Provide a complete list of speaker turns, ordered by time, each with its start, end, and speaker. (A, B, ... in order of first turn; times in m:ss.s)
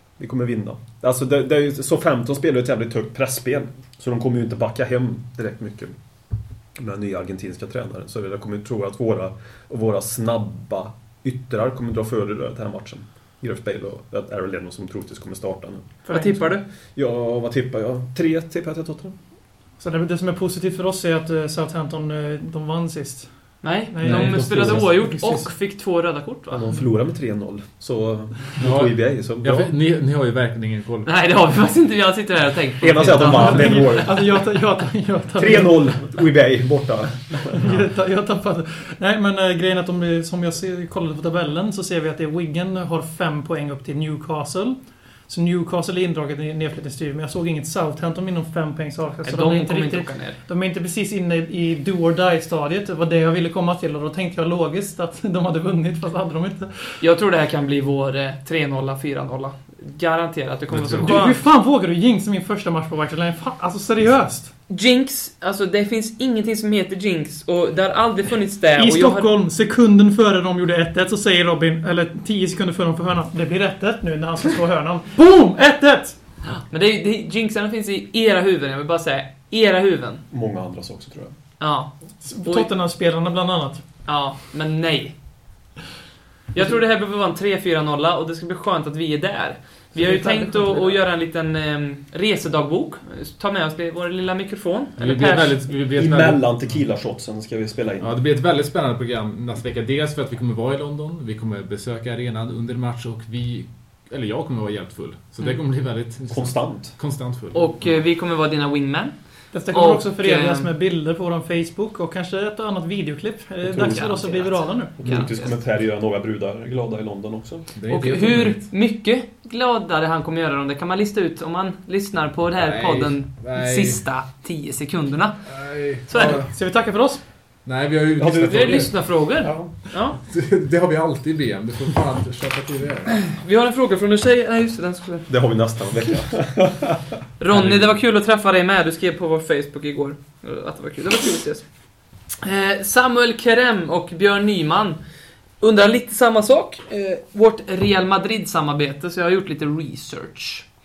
0:00.2-0:05.9 A
0:06.8-0:15.9 A
0:16.0-0:16.6 B
0:16.1-0:16.6 C
0:17.0-0:19.2 A
0:19.8-0:23.3 B
0:23.6-0:26.7 C
0:23.9-0:25.5 B
0:24.0-0:24.9 D
0:26.5-0:29.7 A
0:28.6-0:31.1 D
0:31.0-0:33.9 C
0:32.8-0:34.4 A
0:33.2-0:36.0 B
0:35.4-0:37.7 A
0:37.5-0:44.8 B
0:45.3-0:56.9 B
0:49.2-0:50.4 C
0:57.0-1:01.4 C
1:00.7-1:01.2 D
1:01.0-1:04.5 B
1:04.7-1:09.3 C
1:08.8-1:16.2 B
1:16.5-1:20.2 C
1:20.3-1:21.3 A
1:21.6-1:21.9 C
1:22.2-1:23.8 B
1:22.4-1:22.7 C
1:24.1-1:25.1 C
1:26.5-1:35.6 C
1:29.9-1:31.0 B
1:35.0-1:36.7 D
1:35.9-1:38.2 A
1:38.0-1:47.8 D
1:46.3-1:47.0 A
1:47.5-1:49.2 C
1:49.5-1:55.0 B
1:49.7-1:50.7 C
1:53.6-1:54.1 A
1:53.7-1:55.6 C
1:55.0-1:57.7 A
1:57.8-1:58.7 D
1:57.9-2:05.4 C
2:02.6-2:04.0 D
2:05.5-2:06.5 D
2:06.1-2:06.4 C
2:06.2-2:07.2 B
2:07.6-2:08.9 D
2:08.2-2:08.9 A
2:08.5-2:10.2 C
2:10.3-2:13.2 D
2:13.2-2:15.3 C
2:15.3-2:17.0 A
2:17.4-2:21.6 C
2:17.5-2:17.9 D
2:22.4-2:25.0 C
2:25.6-2:30.7 C